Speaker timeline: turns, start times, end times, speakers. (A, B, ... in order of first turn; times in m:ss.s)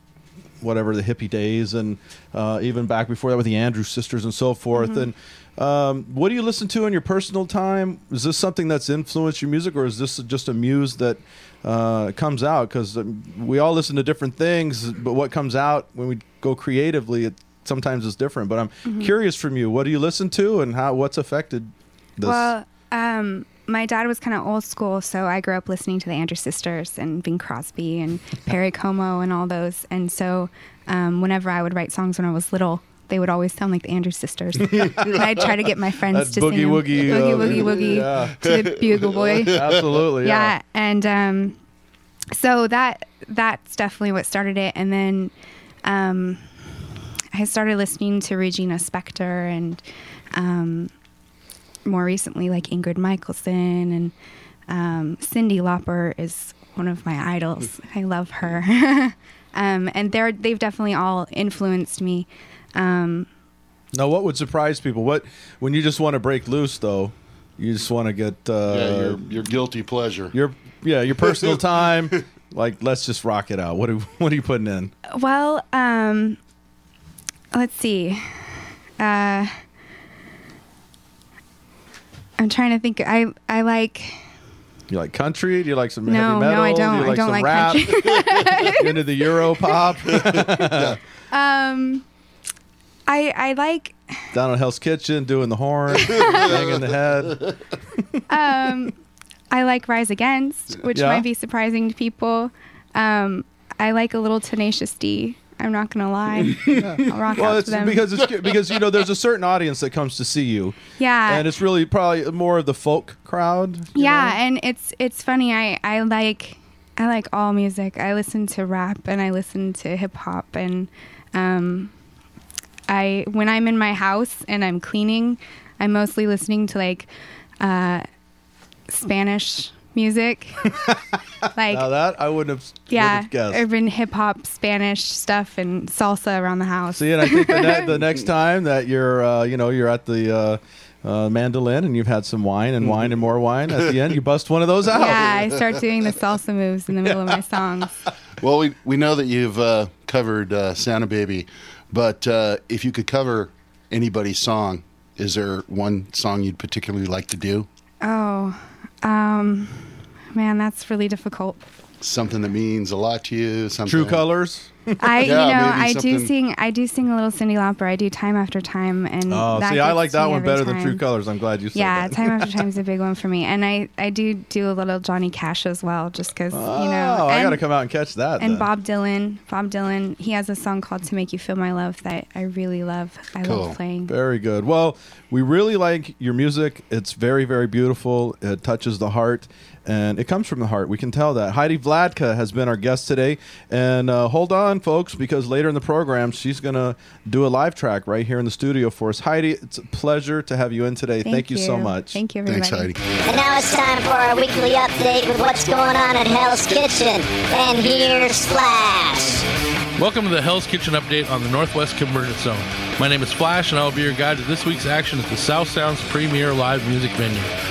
0:00.6-0:22.5 A
0:04.7-0:05.1 B
0:18.9-0:19.1 B
0:22.2-0:41.6 B
0:34.7-0:35.0 A
0:36.1-0:38.4 A
0:37.1-0:40.0 C
0:39.5-0:40.5 A
0:42.3-0:45.3 B
0:45.8-0:46.4 B
0:47.3-0:49.8 B
0:50.3-0:50.9 B
0:51.8-0:54.1 B
0:54.7-1:03.3 B
1:03.9-1:09.3 A
1:08.7-1:10.3 C
1:10.3-1:14.9 A
1:15.1-1:16.4 B
1:17.5-1:19.6 B
1:22.4-1:24.2 B
1:24.9-1:31.0 A
1:26.1-1:29.0 B
1:30.2-1:31.0 C
1:30.2-1:30.6 B
1:31.3-1:32.1 B
1:33.1-1:34.0 B
1:34.3-1:38.0 A
1:36.1-1:36.4 B
1:38.3-1:39.0 B
1:39.5-1:48.0 B
1:40.9-1:41.3 A
1:46.5-1:46.9 C
1:46.7-1:54.4 A
1:51.0-1:51.5 B
1:54.0-2:01.9 B
2:02.9-2:07.1 B
2:07.6-2:08.0 B
2:08.9-2:10.7 B
2:10.7-2:11.0 A
2:11.6-2:11.9 B
2:11.7-2:13.6 A
2:12.9-2:17.9 B
2:16.9-2:25.5 A
2:24.9-2:27.9 B
2:25.0-2:25.4 C
2:28.4-2:37.7 C
2:38.0-2:41.6 B
2:42.0-2:44.2 C
2:43.8-2:45.2 A
2:45.0-2:51.0 B
2:45.2-2:46.3 C
2:49.3-2:52.5 A
2:51.7-2:57.6 B
2:56.5-2:58.7 A
2:58.4-3:04.1 B
3:03.4-3:03.8 C
3:04.1-3:22.2 A
3:21.2-3:22.9 B
3:22.5-3:23.0 C
3:23.3-3:29.4 D
3:30.0-3:37.5 E